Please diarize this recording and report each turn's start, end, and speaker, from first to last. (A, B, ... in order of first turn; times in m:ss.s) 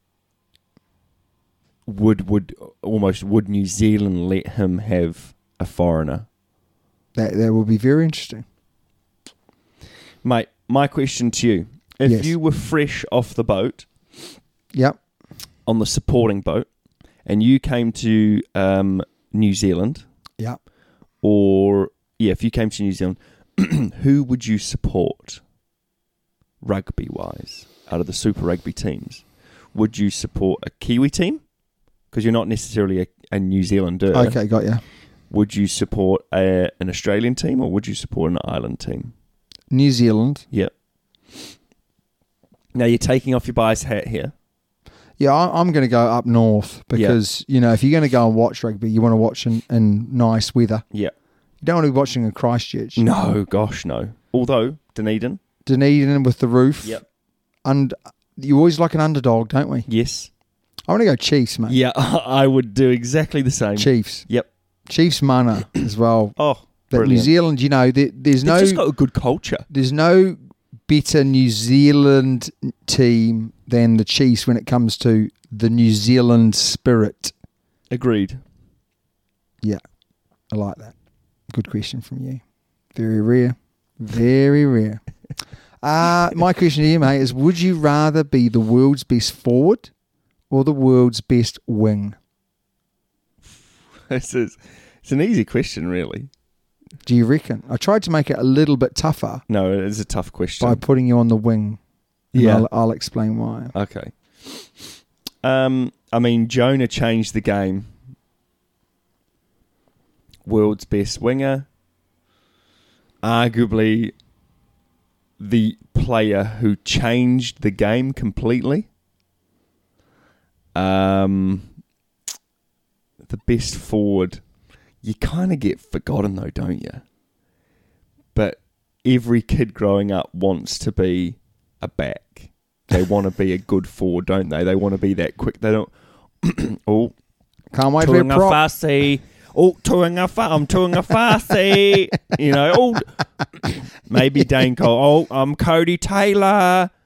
0:01.8-0:06.2 A
0:07.1-0:08.4 B
0:10.2-0:13.9 A
0:12.0-0:12.3 B
0:15.6-0:16.7 A
0:17.2-0:20.0 A
0:21.2-0:25.4 A
0:26.6-0:29.2 A
0:29.7-0:31.4 A
0:32.1-0:34.4 A
0:34.1-0:34.8 B
0:35.3-0:39.1 A
0:39.7-0:40.4 B
0:42.7-0:44.3 A
0:45.2-0:50.8 B
0:46.9-0:47.2 A
0:51.6-0:53.0 B
0:53.0-0:55.4 A
0:55.6-0:57.0 B
0:57.6-0:59.9 B
0:59.9-1:00.3 A
1:00.9-1:01.8 B
1:01.6-1:04.5 A
1:03.8-1:04.2 B
1:04.9-1:06.4 B
1:06.4-1:07.3 A
1:06.9-1:08.8 B
1:08.4-1:09.7 A
1:09.7-1:17.3 B
1:17.9-1:18.4 A
1:20.5-1:20.9 B
1:21.5-1:22.4 B
1:22.9-1:25.0 B
1:25.8-1:29.9 B
1:30.5-1:32.2 B
1:34.1-1:36.3 A
1:37.0-1:39.4 B
1:39.5-1:40.8 A
1:40.6-1:41.8 B
1:42.3-1:42.7 A
1:42.3-1:43.7 B
1:43.7-1:44.6 A
1:45.4-1:47.9 A
1:50.4-1:51.7 A
1:53.2-1:54.1 A
1:55.4-1:58.9 A
2:00.7-2:01.7 A
2:03.2-2:04.4 A
2:05.0-2:07.0 A
2:08.3-2:17.1 A
2:17.7-2:18.6 B
2:18.0-2:26.9 A